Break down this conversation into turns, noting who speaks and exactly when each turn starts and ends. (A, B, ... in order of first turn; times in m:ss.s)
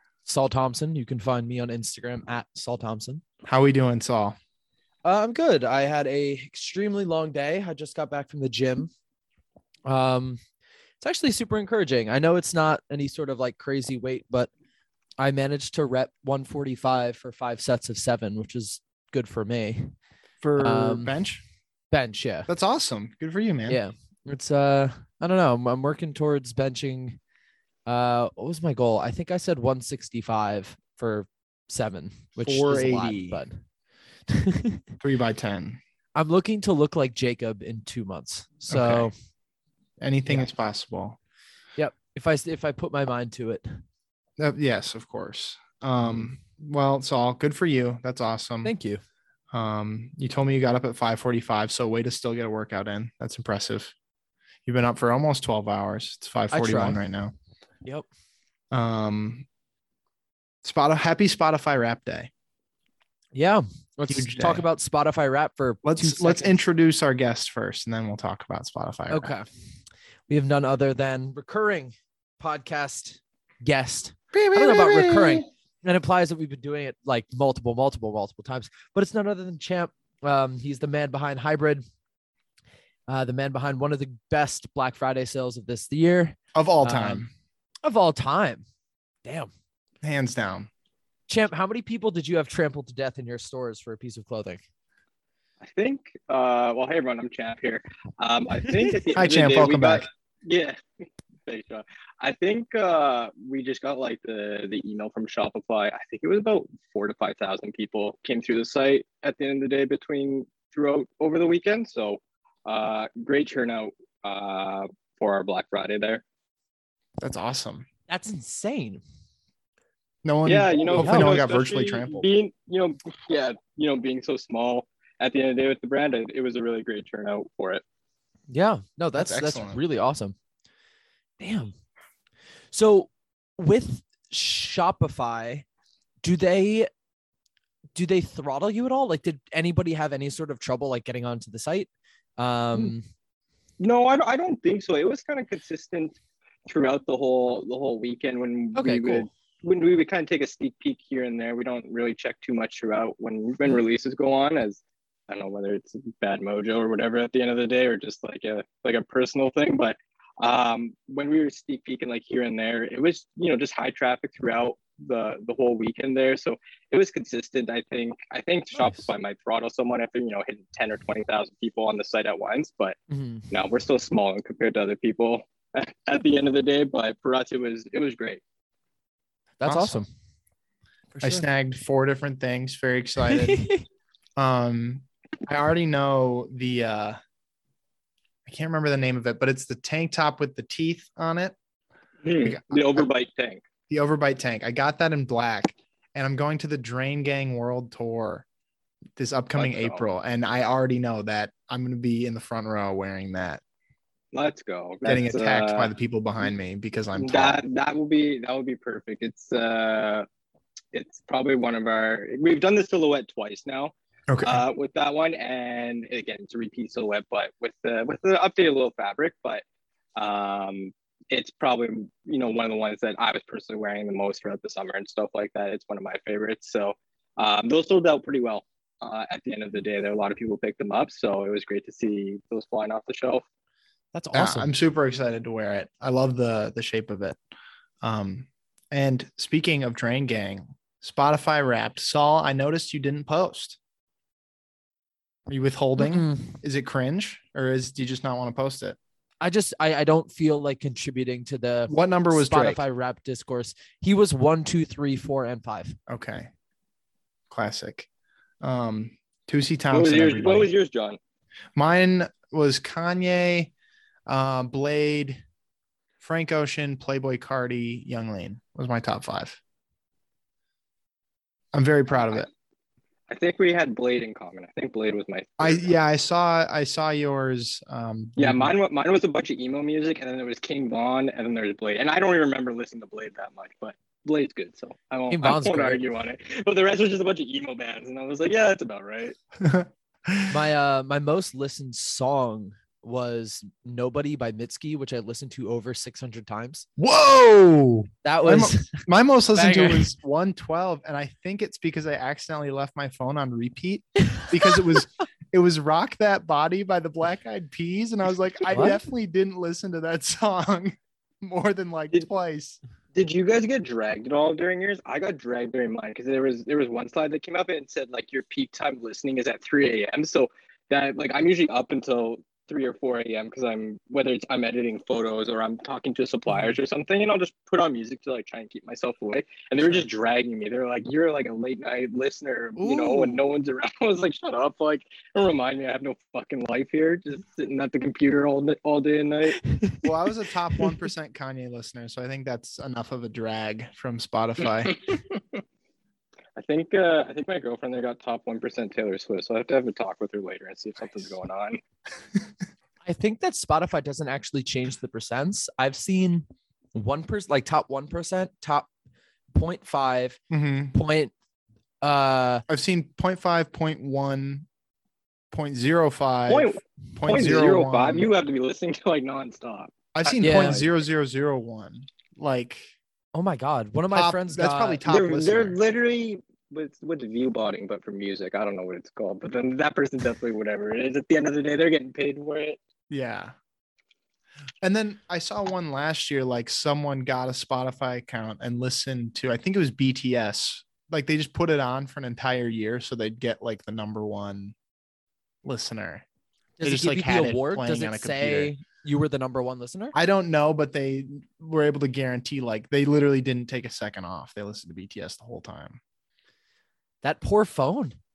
0:00.2-0:03.2 A
0:03.5-0:04.4 B
0:05.0-0:08.9 A
0:09.9-0:10.4 A
0:11.0-0:14.5 A
0:15.2-0:19.9 A
0:20.4-0:21.4 B
0:20.6-0:21.2 A
0:21.9-0:22.5 A
0:22.5-0:23.8 B
0:23.7-0:27.2 A
0:27.9-0:33.6 A
0:32.4-0:33.4 B
0:34.3-0:34.8 A
0:35.0-0:35.8 B
0:36.1-0:39.1 A
0:38.7-0:39.1 B
0:40.0-0:41.2 B
0:41.8-0:43.8 A
0:44.4-0:48.7 B
0:46.0-0:46.3 A
0:48.6-0:49.0 A
0:49.5-0:53.9 B
0:54.7-0:57.3 B
0:56.5-0:57.0 A
0:58.7-0:59.4 B
1:00.6-1:02.3 B
1:03.3-1:06.6 A
1:04.1-1:04.6 B
1:05.8-1:09.3 B
1:09.1-1:09.4 A
1:10.3-1:21.8 A
1:14.3-1:15.5 B
1:23.1-1:27.2 A
1:26.6-1:27.3 B
1:27.8-1:28.6 A
1:29.2-1:29.5 A
1:30.0-1:30.7 B
1:31.3-1:34.6 A
1:35.6-1:40.8 C
1:38.7-1:38.9 A
1:39.2-1:40.1 B
1:41.4-1:56.2 C
1:57.2-1:57.9 B
1:58.1-1:59.0 A
2:00.2-2:02.3 B
2:00.4-2:07.8 C
2:01.0-2:01.4 A
2:08.5-2:10.3 A
2:09.2-2:09.8 B
2:11.4-2:11.7 A
2:12.7-2:15.6 A
2:16.2-2:16.9 A
2:18.0-2:23.0 A
2:23.8-2:26.2 C
2:26.7-2:53.0 C
2:28.8-2:29.3 A
2:48.7-2:49.1 A
2:53.1-2:53.5 A
2:53.5-2:58.4 C
2:59.6-3:00.1 A
2:59.6-3:00.0 B
3:01.1-3:01.5 A
3:01.2-3:03.7 B
3:03.3-3:03.8 A
3:04.4-3:07.2 B
3:08.5-3:11.6 B
3:12.2-3:13.6 C
3:12.4-3:13.1 B
3:13.9-3:18.5 B
3:19.2-3:23.6 B
3:19.6-3:20.0 C
3:24.3-3:25.9 C
3:25.0-3:27.6 B
3:27.2-3:30.2 C
3:30.9-3:39.6 C
3:34.3-3:34.6 B
3:40.2-3:53.4 C
3:54.1-3:54.7 A
3:54.3-3:57.4 B
3:58.0-4:03.8 B
4:05.5-4:09.0 B
4:06.0-4:06.6 A
4:09.4-4:16.0 A
4:11.9-4:12.8 B
4:16.1-4:16.5 B
4:17.5-4:18.1 B
4:18.6-4:20.7 B
4:19.9-4:21.2 C
4:21.8-4:23.7 B
4:24.3-4:25.4 B
4:26.2-4:29.6 B
4:31.7-4:32.5 B
4:33.3-4:35.9 C
4:35.6-4:38.7 B
4:38.4-4:49.4 C
4:45.3-4:46.0 A
4:49.6-4:50.6 B
4:50.5-4:56.9 A
4:57.0-5:12.8 B
4:58.2-4:59.0 A
4:59.5-5:00.1 A
5:08.7-5:09.0 A
5:13.1-5:39.6 C
5:29.8-5:30.1 B
5:32.8-5:33.4 B
5:39.7-5:40.0 A
5:40.0-5:45.0 B
5:44.7-5:45.4 C
5:46.6-5:51.8 C
5:53.0-5:58.9 A
5:59.5-6:00.4 A
6:00.5-6:00.9 B
6:00.9-6:01.3 A
6:02.0-6:02.6 A
6:02.7-6:04.7 B
6:05.5-6:08.3 B
6:06.5-6:10.9 C
6:10.2-6:12.9 B
6:10.4-6:10.8 A
6:13.3-6:15.0 A
6:14.1-6:15.8 B
6:15.0-6:22.8 C
6:23.1-6:23.5 B
6:24.8-6:34.8 B
6:35.6-6:36.2 B
6:36.8-6:40.2 A
6:36.8-6:38.7 B
6:40.1-6:46.0 B
6:47.2-6:48.2 A